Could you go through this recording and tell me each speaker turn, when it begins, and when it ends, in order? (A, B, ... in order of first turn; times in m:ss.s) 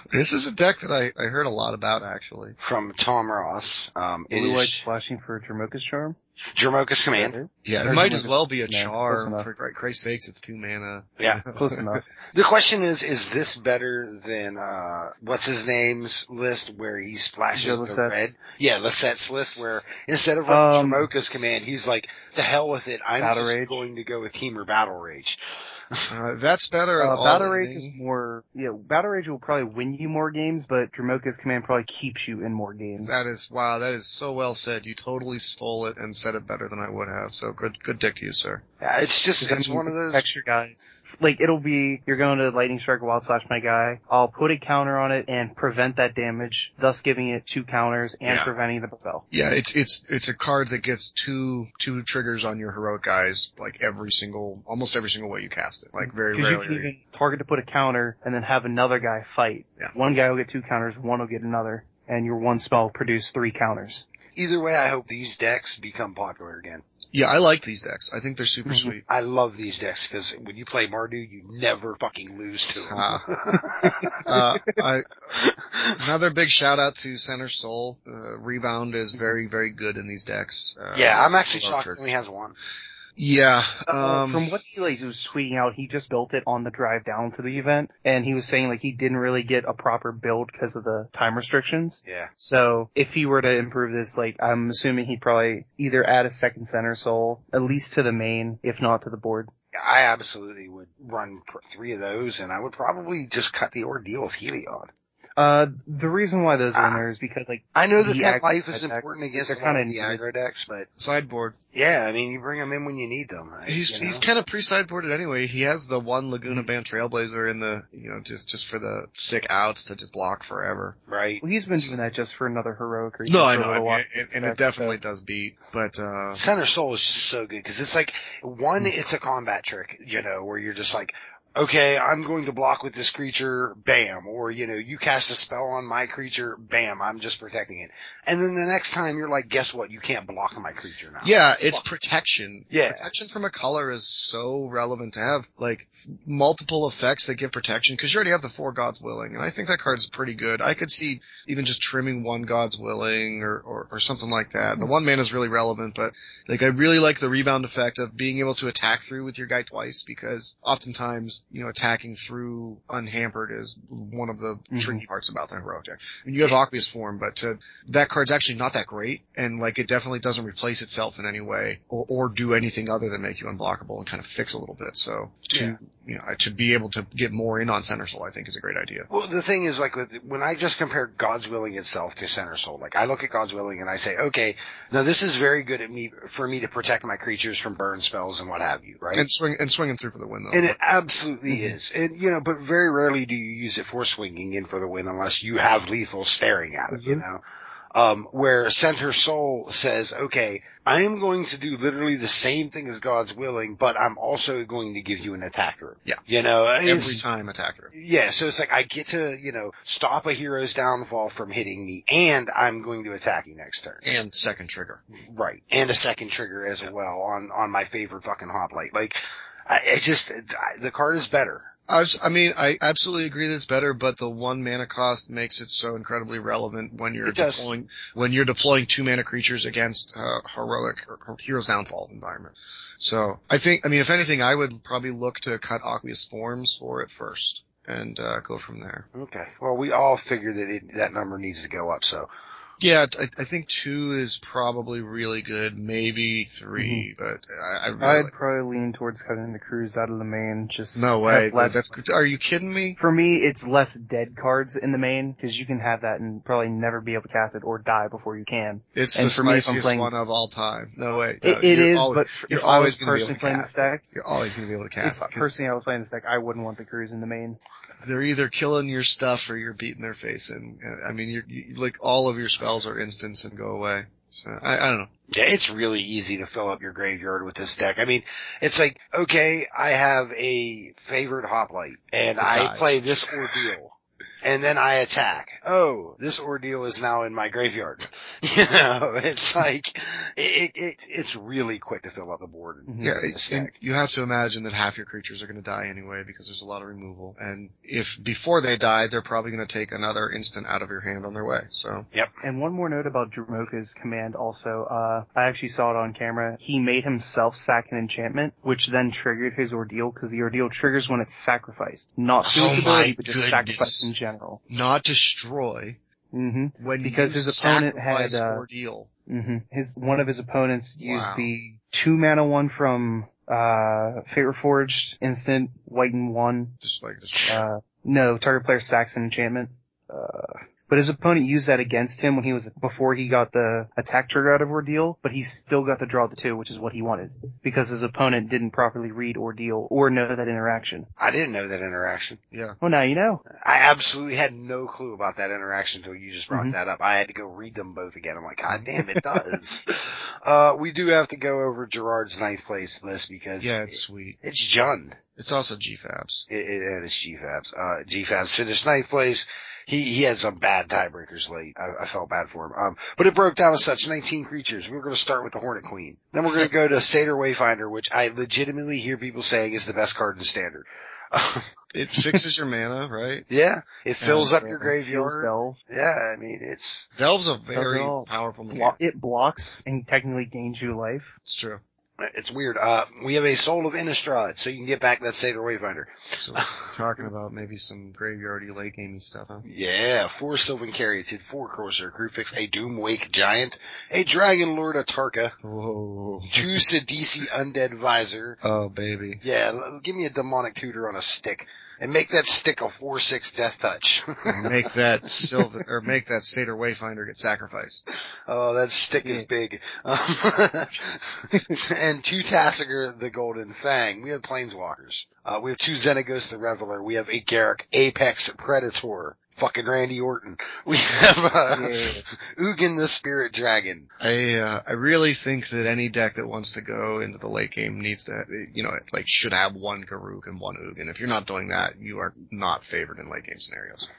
0:00.1-0:02.6 A
0:02.6-0:04.8 B
0:04.3-0:06.2 C
0:06.4-0:07.4 B
0:07.1-0:09.5 C
0:07.6-0:11.8 A
0:11.5-0:12.0 C
0:12.3-0:25.4 B
0:17.5-0:18.2 C
0:20.5-0:21.0 C
0:23.2-0:23.8 C
0:26.1-0:28.0 A
0:27.0-0:33.2 C
0:33.0-0:38.6 A
0:38.8-0:40.2 B
0:39.4-0:49.2 C
0:49.3-0:56.9 A
0:56.0-1:04.0 C
1:04.4-1:06.8 B
1:07.1-1:09.0 A
1:09.1-1:14.2 B
1:12.9-1:13.4 A
1:14.2-1:15.2 A
1:15.3-1:16.0 B
1:16.0-1:22.0 A
1:20.9-1:22.6 B
1:23.2-1:24.5 A
1:23.9-1:39.5 C
1:32.0-1:32.3 B
1:39.7-1:44.9 B
1:45.4-1:50.2 C
1:46.7-1:47.0 B
1:47.7-1:50.9 B
1:51.0-1:51.6 A
1:51.7-1:54.2 B
1:53.7-2:01.0 A
2:01.1-2:01.4 B
2:01.4-2:05.0 C
2:03.3-2:06.4 A
2:06.3-2:21.8 B
2:21.2-2:59.1 A
2:22.7-2:23.1 B
2:44.7-2:45.0 C
2:55.5-2:55.8 B
2:59.1-3:09.2 B
3:09.1-3:10.8 A
3:10.5-3:27.2 B
3:16.9-3:17.2 A
3:26.8-3:27.9 A
3:27.9-3:34.1 B
3:34.0-3:35.0 A
3:35.1-3:41.7 B
3:41.9-3:59.0 A
3:47.2-3:47.7 B
3:59.1-4:02.3 B
4:02.8-4:08.3 A
4:06.8-4:07.1 C
4:08.0-4:11.9 C
4:10.9-4:13.0 A
4:13.0-4:20.1 C
4:18.9-4:25.5 A
4:21.4-4:24.0 C
4:25.0-4:27.6 C
4:28.0-4:35.1 A
4:35.3-4:53.7 B
4:42.4-4:43.2 A
4:52.9-4:53.2 C
4:53.0-5:02.1 A
5:02.4-5:14.6 C
5:12.4-5:14.1 A
5:14.7-5:16.0 A
5:16.3-5:18.6 C
5:16.8-5:19.1 A
5:19.3-5:26.7 C
5:21.0-5:21.5 A
5:26.8-5:27.6 A
5:27.3-5:27.6 B
5:27.5-5:41.1 C
5:41.2-5:42.4 B
5:42.5-5:42.8 A
5:42.8-5:43.4 C
5:43.5-5:55.2 B
5:46.5-5:46.8 C
5:53.6-5:54.4 A
5:55.4-5:56.4 A
5:56.5-6:11.7 B
6:11.9-6:13.4 A
6:13.5-6:17.1 B
6:14.2-6:14.5 A
6:14.3-6:15.8 C
6:17.2-6:19.0 A
6:17.7-6:21.3 C
6:21.4-6:21.8 A
6:22.2-6:27.2 B
6:26.4-6:29.6 A
6:29.6-6:35.5 B
6:35.6-6:36.7 A
6:36.5-6:38.6 B
6:38.6-6:39.4 A
6:39.4-6:44.8 B
6:44.5-6:48.0 A
6:48.5-7:04.1 B
7:01.7-7:02.2 C
7:04.2-7:14.1 A